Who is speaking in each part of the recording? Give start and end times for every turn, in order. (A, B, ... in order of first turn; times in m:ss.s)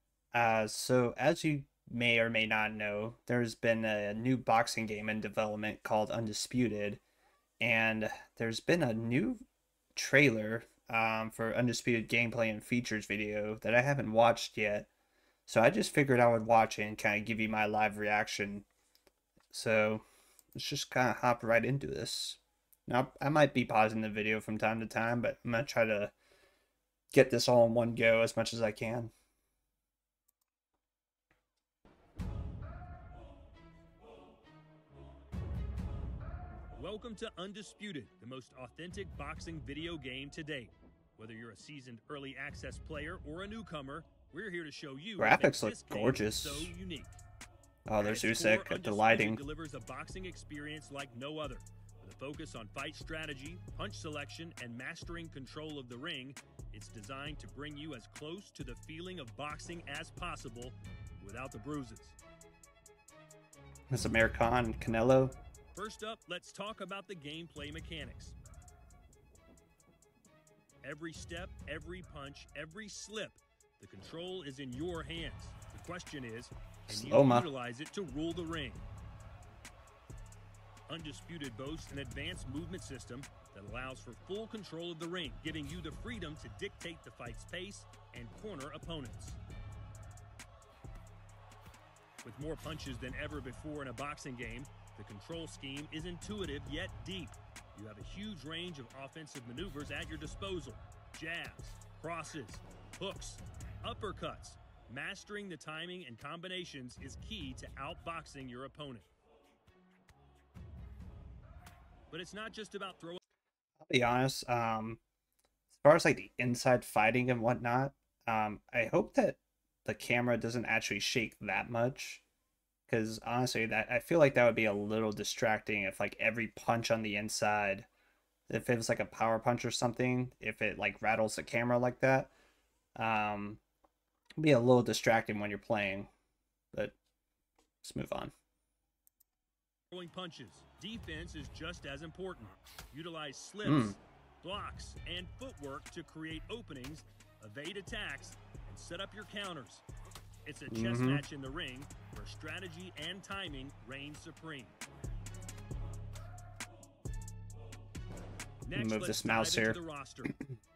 0:00.3-0:07.0 A
0:07.6-0:09.4 A
0:10.0-0:14.9 A
0:15.5-0:18.7 A
0:19.5-0:20.0 A
0:20.6-0:26.1 A
0:27.1-0:29.1 A
0:36.8-0:47.2 B
0:45.2-0:46.7 A
0:47.9-0:49.4 A
0:48.0-1:02.2 B
1:03.9-1:05.4 A
1:05.8-1:08.4 B
1:10.8-1:18.9 B
1:16.9-1:17.5 A
1:20.9-1:29.4 B
1:32.2-1:49.1 B
1:52.1-1:53.2 B
1:53.8-1:55.0 A
1:55.8-2:02.2 A
2:02.9-2:07.9 A
2:08.5-2:12.3 A
2:13.0-2:13.6 A
2:14.4-2:16.1 A
2:17.8-2:18.3 A
2:19.9-2:29.8 B
2:23.6-2:24.0 A
2:30.4-2:34.8 B
2:30.7-2:31.2 A
2:38.6-2:40.4 B
2:38.7-2:39.8 A